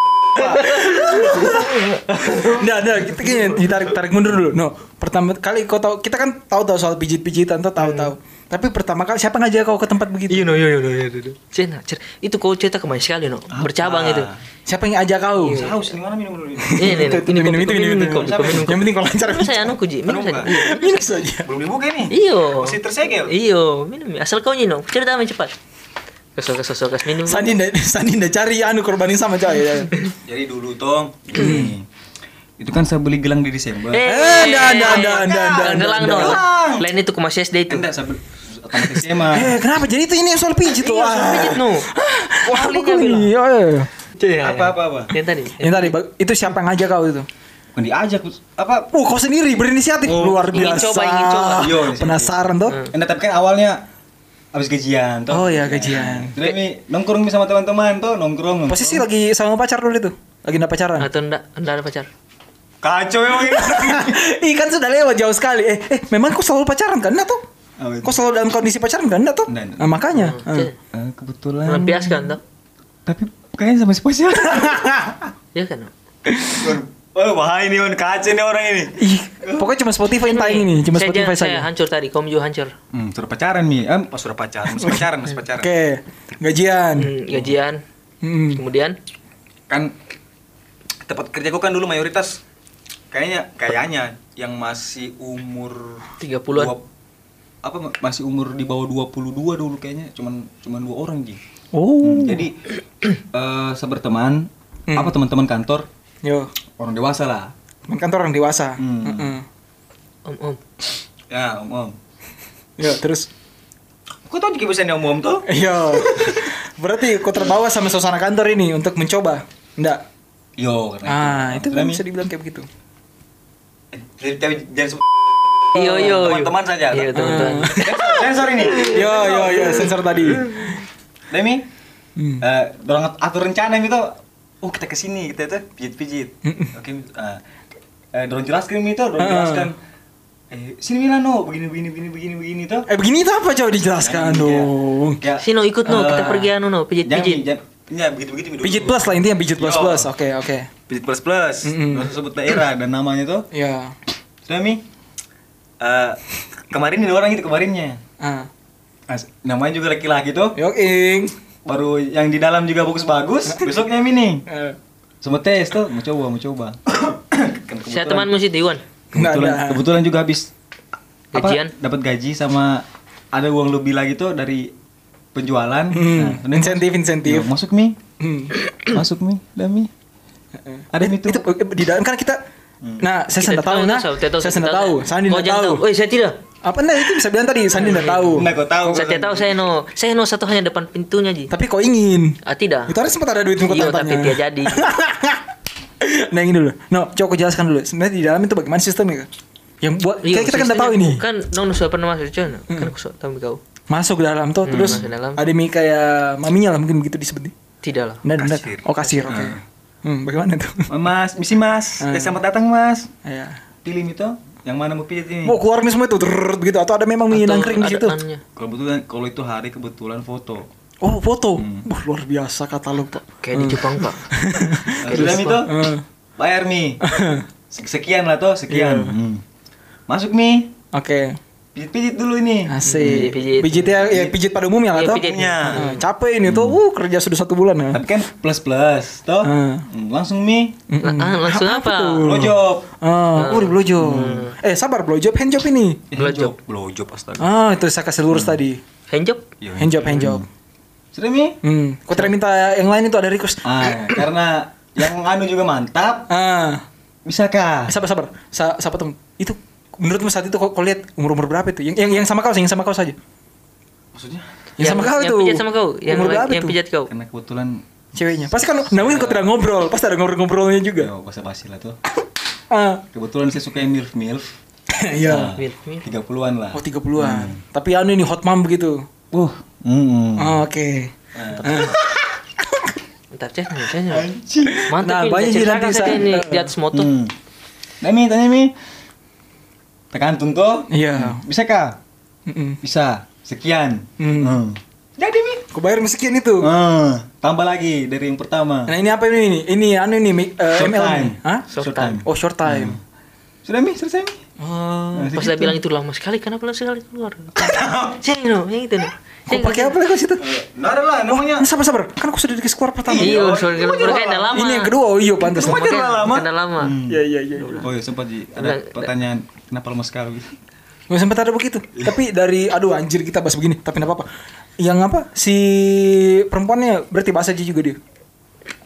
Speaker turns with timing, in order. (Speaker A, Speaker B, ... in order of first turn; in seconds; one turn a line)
Speaker A: 0.2-1.3
Speaker B: 0.4-2.6
Speaker C: 0.6-10.6
Speaker B: 7.8-8.1
Speaker B: 10.3-14.3
Speaker A: 13.5-14.4
Speaker C: 14.7-15.6
Speaker B: 15.4-15.9
Speaker A: 15.5-17.1
Speaker C: 16.6-19.8
Speaker B: 16.7-21.1
Speaker A: 18.1-18.8
Speaker A: 20.1-20.6
Speaker C: 20.4-21.5
Speaker A: 21.4-23.3
Speaker B: 22.1-25.6
Speaker B: 26.4-27.6
Speaker C: 27.2-30.1
Speaker A: 30.2-31.9
Speaker C: 31.3-31.7
Speaker A: 32.6-36.9
Speaker B: 33.9-37.9
Speaker C: 34.0-36.4
Speaker A: 37.7-39.5
Speaker C: 39.2-43.9
Speaker B: 40.7-41.9
Speaker B: 42.4-43.3
Speaker B: 44.2-46.0
Speaker A: 44.4-45.1
Speaker C: 45.6-47.3
Speaker A: 47.7-48.9
Speaker C: 48.9-52.8
Speaker A: 50.0-50.8
Speaker B: 50.5-51.7
Speaker A: 51.6-52.3
Speaker A: 52.9-53.8
Speaker A: 54.5-59.0
Speaker C: 55.3-56.4
Speaker C: 58.7-61.1
Speaker B: 61.0-62.1
Speaker A: 62.8-64.2
Speaker C: 63.5-67.4
Speaker A: 67.8-68.2
Speaker C: 68.0-70.7
Speaker A: 69.5-70.0
Speaker B: 70.1-70.7
Speaker A: 70.9-72.1
Speaker B: 71.7-72.4
Speaker A: 73.0-75.0
Speaker C: 74.4-75.2
Speaker B: 75.5-75.9
Speaker C: 76.3-76.8
Speaker A: 76.5-79.7
Speaker C: 79.0-81.7
Speaker B: 80.2-82.7
Speaker A: 82.9-85.7
Speaker C: 84.7-85.0
Speaker C: 85.6-87.1
Speaker B: 87.0-87.8
Speaker C: 88.2-88.6
Speaker B: 88.5-89.0
Speaker A: 91.0-92.4
Speaker A: 93.1-96.8
Speaker B: 96.2-96.7
Speaker A: 97.6-101.4
Speaker C: 101.7-102.5
Speaker A: 102.0-102.6
Speaker A: 103.3-105.9
Speaker C: 104.9-105.2
Speaker C: 106.2-106.5
Speaker A: 106.8-107.5
Speaker C: 107.9-109.4
Speaker A: 108.8-109.4
Speaker B: 110.2-110.6
Speaker A: 111.3-112.0
Speaker C: 112.8-113.3
Speaker A: 114.3-115.5
Speaker C: 115.5-120.0
Speaker A: 116.0-116.4
Speaker A: 120.6-122.0
Speaker C: 121.0-122.7
Speaker A: 123.9-130.4
Speaker B: 125.7-128.0
Speaker C: 127.1-128.2
Speaker C: 128.7-130.7
Speaker A: 131.3-131.6
Speaker C: 132.2-132.4
Speaker A: 132.4-137.4
Speaker C: 136.4-136.7
Speaker A: 138.1-139.8
Speaker C: 139.2-139.7
Speaker A: 140.5-142.9
Speaker C: 142.9-145.2
Speaker A: 144.0-146.5
Speaker B: 145.4-147.4
Speaker C: 145.9-146.2
Speaker A: 147.1-150.1
Speaker C: 148.6-150.7
Speaker A: 150.9-153.5
Speaker C: 151.6-152.1
Speaker C: 153.5-153.9
Speaker A: 154.4-154.8
Speaker A: 155.8-158.0
Speaker C: 158.2-158.5
Speaker A: 159.1-160.6
Speaker C: 160.6-161.3
Speaker A: 161.6-164.5
Speaker C: 164.5-164.8
Speaker A: 165.2-168.3
Speaker B: 167.9-168.8
Speaker C: 169.1-169.8
Speaker A: 169.1-170.5
Speaker B: 171.3-171.7
Speaker A: 171.3-174.7
Speaker A: 175.3-178.0
Speaker C: 175.9-177.5
Speaker C: 178.2-178.6
Speaker A: 178.8-179.9
Speaker C: 180.7-182.4
Speaker A: 180.9-181.4
Speaker A: 182.8-183.1
Speaker C: 183.0-185.8
Speaker B: 183.4-186.4
Speaker C: 186.6-188.5
Speaker B: 187.8-191.5
Speaker A: 188.3-189.6
Speaker C: 191.5-195.4
Speaker B: 192.4-192.9
Speaker B: 193.7-194.8
Speaker C: 196.0-199.3
Speaker C: 199.8-201.2
Speaker B: 200.2-203.6
Speaker C: 203.9-207.5
Speaker B: 204.6-205.4
Speaker A: 204.7-205.1
Speaker B: 207.8-208.2
Speaker C: 208.2-210.9
Speaker A: 208.4-209.6
Speaker A: 210.9-213.1
Speaker C: 212.0-212.4
Speaker C: 213.2-213.6
Speaker A: 213.8-215.6
Speaker C: 215.4-218.2
Speaker B: 217.3-218.4
Speaker A: 218.6-220.7
Speaker C: 221.0-226.0
Speaker A: 221.6-221.8
Speaker B: 223.4-224.3
Speaker A: 225.0-227.0
Speaker B: 225.1-225.7
Speaker C: 227.0-227.4
Speaker A: 227.7-229.4
Speaker C: 228.7-229.2
Speaker A: 230.1-230.7
Speaker C: 230.9-231.4
Speaker A: 231.7-234.3
Speaker C: 232.7-238.0
Speaker B: 232.8-234.1
Speaker B: 234.9-236.0
Speaker A: 235.1-235.9
Speaker A: 236.4-236.8
Speaker A: 237.9-240.8
Speaker C: 239.4-239.9
Speaker C: 240.9-246.0
Speaker B: 241.0-242.3
Speaker A: 242.2-242.9
Speaker B: 243.4-244.5
Speaker A: 244.0-244.4
Speaker A: 246.1-247.5
Speaker B: 246.1-246.6
Speaker C: 247.4-248.8
Speaker A: 248.3-248.6
Speaker B: 249.1-249.4
Speaker A: 249.6-250.5
Speaker C: 249.8-250.4
Speaker A: 251.1-251.6
Speaker C: 251.6-253.6
Speaker A: 253.6-256.3
Speaker C: 256.3-256.8
Speaker A: 257.2-257.9
Speaker C: 257.9-263.2
Speaker A: 264.1-264.5
Speaker C: 264.8-266.8
Speaker B: 264.8-267.1
Speaker A: 267.1-267.8
Speaker C: 268.1-271.1
Speaker A: 268.6-269.5
Speaker A: 271.0-272.0
Speaker C: 272.7-273.0
Speaker A: 273.1-274.5
Speaker C: 274.9-275.6
Speaker A: 275.1-277.6
Speaker B: 275.5-276.1
Speaker C: 276.7-279.1
Speaker A: 279.3-280.6
Speaker C: 280.4-282.0
Speaker A: 281.3-282.0
Speaker C: 282.6-282.9
Speaker B: 283.3-284.3
Speaker A: 284.0-284.9
Speaker C: 284.7-286.7
Speaker B: 284.9-287.1
Speaker A: 286.9-287.3
Speaker A: 288.0-288.7
Speaker A: 290.1-292.0
Speaker C: 290.9-291.4
Speaker C: 292.5-292.8
Speaker A: 292.8-295.7
Speaker C: 294.2-294.6
Speaker C: 295.7-296.7
Speaker A: 296.6-298.9
Speaker C: 298.9-301.7
Speaker A: 300.7-303.0
Speaker B: 301.7-302.2
Speaker C: 302.2-303.0
Speaker A: 303.6-304.4
Speaker B: 304.6-310.0
Speaker A: 305.1-305.8
Speaker A: 307.6-308.2
Speaker C: 309.5-310.4
Speaker A: 310.4-311.7
Speaker C: 311.3-316.0
Speaker A: 313.1-314.6
Speaker B: 313.2-314.9
Speaker A: 315.4-320.5
Speaker B: 315.5-316.9
Speaker C: 317.1-317.9
Speaker B: 317.6-317.9
Speaker B: 318.6-319.1
Speaker C: 321.1-324.3
Speaker C: 324.8-328.0